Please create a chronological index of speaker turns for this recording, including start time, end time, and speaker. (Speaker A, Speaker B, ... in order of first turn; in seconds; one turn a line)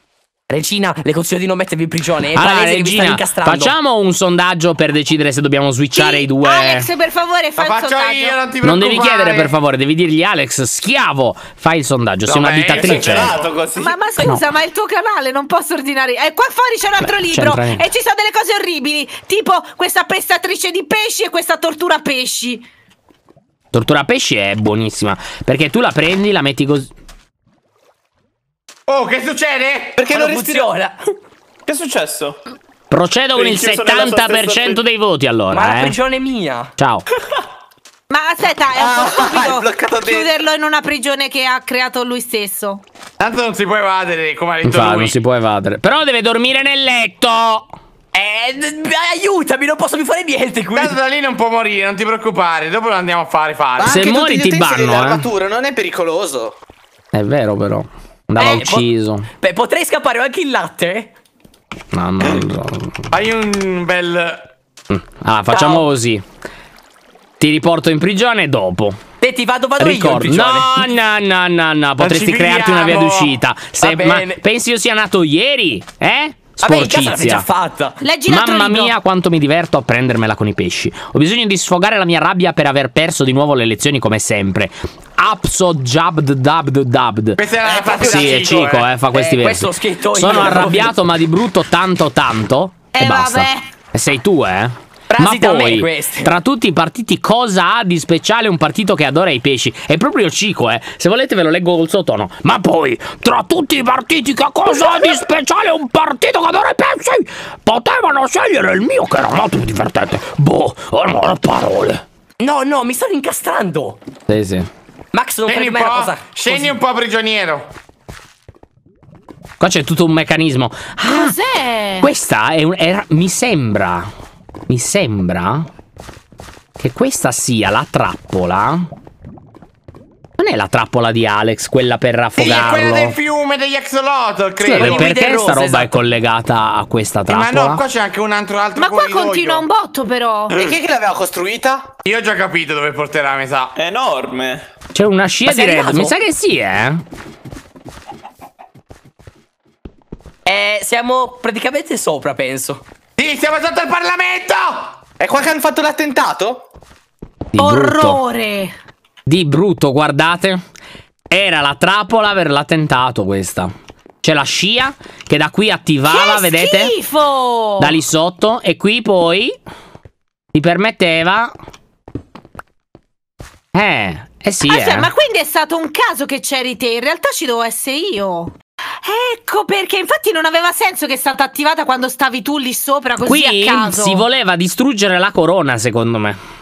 Speaker A: 0.5-3.8
Speaker B: 2.4-6.9
Speaker C: 5.9-8.4
Speaker D: 7.6-9.5
Speaker B: 8.6-13.4
Speaker D: 12.3-13.4
Speaker E: 12.9-13.9
Speaker C: 13.8-22.6
Speaker B: 14.2-14.4
Speaker B: 17.0-17.8
Speaker B: 23.7-26.9
Speaker D: 28.9-30.0
Speaker F: 30.0-30.7
Speaker A: 30.1-31.0
Speaker E: 31.7-32.4
Speaker B: 32.9-36.0
Speaker E: 33.4-34.8
Speaker F: 34.0-34.5
Speaker A: 35.5-36.7
Speaker B: 36.8-37.0
Speaker C: 38.1-42.8
Speaker F: 38.7-40.4
Speaker D: 43.2-45.1
Speaker B: 44.6-47.7
Speaker A: 48.1-51.0
Speaker D: 50.7-54.1
Speaker F: 53.8-56.5
Speaker B: 53.9-55.3
Speaker B: 57.1-59.3
Speaker C: 58.4-58.6
Speaker A: 58.4-61.1
Speaker B: 61.9-63.0
Speaker D: 63.1-64.4
Speaker B: 64.9-66.2
Speaker A: 65.5-65.9
Speaker B: 67.4-69.0
Speaker A: 69.2-70.9
Speaker B: 69.8-77.5
Speaker D: 72.0-73.3
Speaker A: 73.8-74.4
Speaker A: 76.6-78.0
Speaker C: 78.0-78.9
Speaker B: 78.3-87.4
Speaker D: 87.4-88.9
Speaker F: 87.6-88.4
Speaker B: 88.0-112.0
Speaker A: 89.1-90.9
Speaker C: 92.9-93.7
Speaker A: 95.1-96.3
Speaker A: 112.4-114.0
Speaker B: 114.3-114.7
Speaker A: 115.1-116.7
Speaker D: 115.5-117.7
Speaker B: 119.6-121.4
Speaker C: 121.0-122.1
Speaker B: 122.0-124.1
Speaker B: 124.7-125.7
Speaker B: 126.8-128.9
Speaker B: 130.4-133.2
Speaker D: 132.4-135.2
Speaker B: 134.6-137.8
Speaker A: 134.7-136.0
Speaker D: 137.3-139.7
Speaker C: 138.8-140.7
Speaker F: 140.5-141.9
Speaker D: 142.1-143.7
Speaker E: 143.8-144.6
Speaker B: 144.9-147.0
Speaker A: 145.4-146.2
Speaker A: 150.5-152.8
Speaker D: 153.2-155.0
Speaker F: 155.2-156.6
Speaker B: 157.5-158.2
Speaker C: 157.6-158.7
Speaker B: 159.3-160.6
Speaker B: 161.3-163.7
Speaker B: 164.2-167.0
Speaker C: 166.1-168.0
Speaker B: 167.8-169.5
Speaker B: 170.5-171.5
Speaker B: 173.7-175.1
Speaker C: 174.6-184.2
Speaker B: 183.2-186.4